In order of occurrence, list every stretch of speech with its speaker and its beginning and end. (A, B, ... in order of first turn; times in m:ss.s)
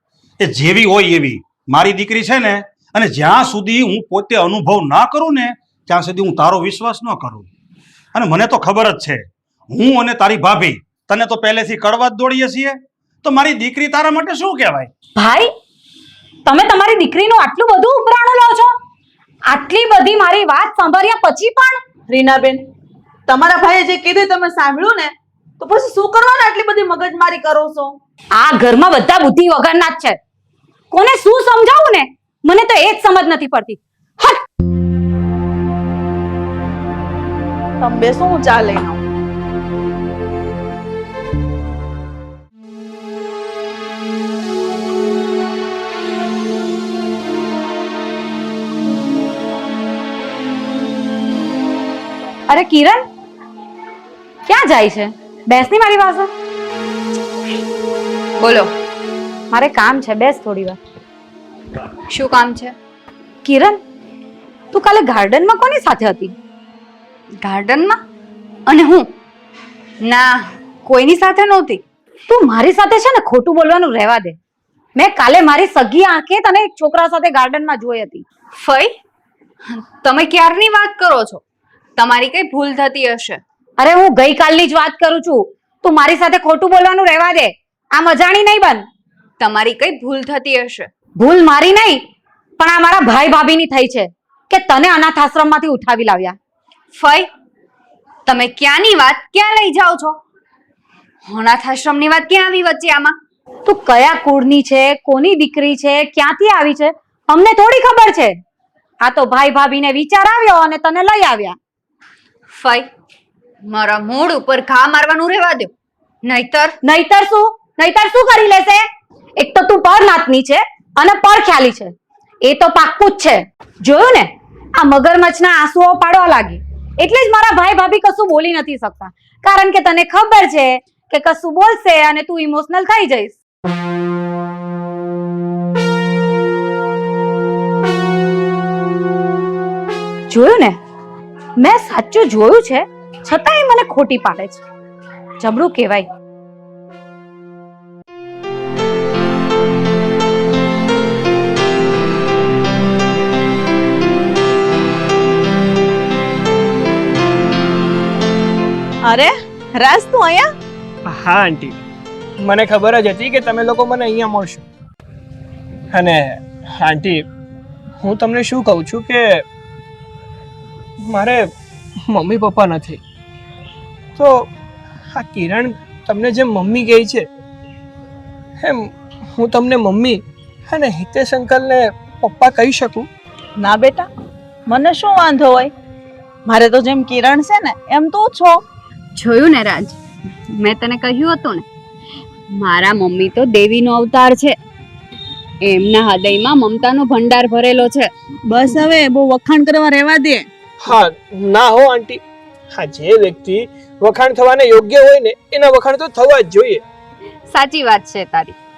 0:00.4-0:07.5 A
0:08.1-0:14.9 A
0:15.2-0:15.5 B
0:16.4-0:18.7 B
0:19.5-0:21.8 B
0:22.1-0:22.6 C
0:23.3-0:28.0 C
0:28.4-0:30.2 B
0:30.9-0:34.4 B
0:37.8-0:39.0 C
0:52.5-0:53.0 B
0:54.4-0:56.3 B
0:58.4-0:58.7 D
0:59.5-1:00.8 B
1:02.1-1:02.7 D
1:03.4-1:03.8 B
1:04.7-1:06.3 B
1:07.4-1:08.0 D
1:08.7-1:09.1 D
1:10.0-1:11.8 D
1:12.3-1:14.4 B
1:15.0-1:18.2 B
1:18.6-1:19.0 D
1:19.7-1:21.4 D
1:22.0-1:23.4 D
1:23.8-1:28.8 B
1:29.4-1:30.9 D
1:31.2-1:32.0 B
1:32.6-1:36.4 B
1:36.9-1:37.3 D
1:38.2-1:40.2 D
1:41.2-1:43.2 D
1:43.6-1:48.4 B
1:49.0-1:51.6 B
1:52.5-1:52.9 D
1:53.7-1:55.7 D
1:56.2-1:56.8 D
1:56.8-1:58.8 B
1:59.4-2:13.4 B
2:20.3-2:20.8 B
2:21.6-2:24.6 B
2:25.4-2:26.1 B
2:39.0-2:40.5 C
2:41.0-2:41.8 E
2:42.4-2:44.6 E
2:45.9-2:47.2 E
2:48.0-2:49.4 E
2:51.0-2:51.5 E
2:52.0-2:53.0 E
2:54.2-2:54.5 E
2:55.1-2:57.3 E
2:58.6-3:03.1 E
3:03.6-3:04.1 C
3:04.7-3:05.7 C
3:06.4-3:08.6 C
3:09.1-3:11.6 D
3:12.5-3:14.6 D
3:15.6-3:18.1 D
3:18.5-3:20.5 C
3:20.8-3:22.2 E
3:22.7-3:26.8 E
3:27.5-3:28.6 D